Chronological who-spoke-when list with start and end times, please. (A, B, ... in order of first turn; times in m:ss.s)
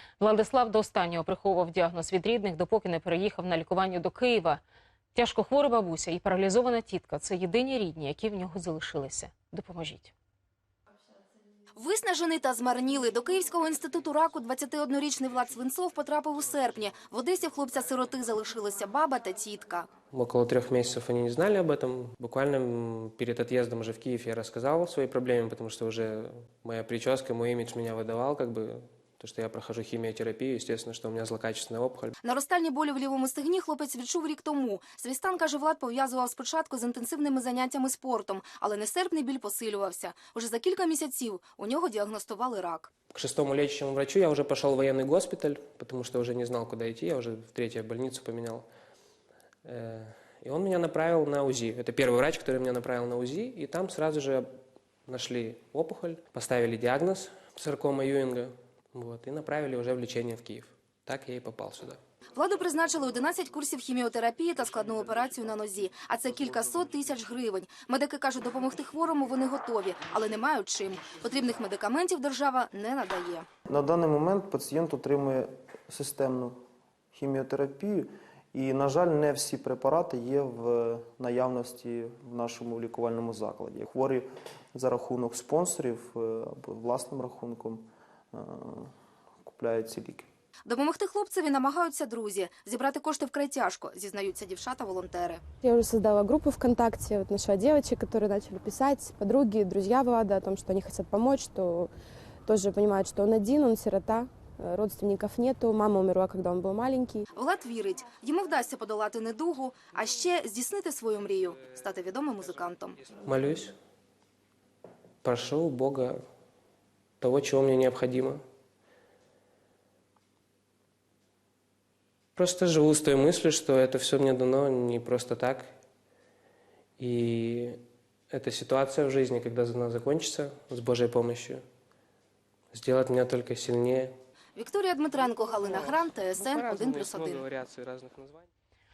0:00.2-0:04.6 A
0:05.1-0:10.1 A
0:11.8-0:19.9 B
0:20.1-0:32.1 C
0:32.2-0:42.9 B
0:43.1-0:48.7 C
0:49.6-0:54.5 C
0:55.1-1:02.0 C
1:02.4-1:13.5 B
1:13.7-1:16.6 D
1:17.1-1:28.9 D
1:29.4-1:30.3 D
1:30.7-1:35.4 B
1:35.6-1:41.9 E
1:42.5-1:47.3 E
1:47.3-1:53.0 B
1:52.5-1:53.8 C
1:55.2-1:56.2 C
1:57.2-1:58.4 C
2:02.4-2:05.7 C
2:07.0-2:07.8 C
2:08.3-2:11.6 C
2:12.7-2:14.1 C
2:14.6-2:17.5 B
2:15.3-2:18.5 C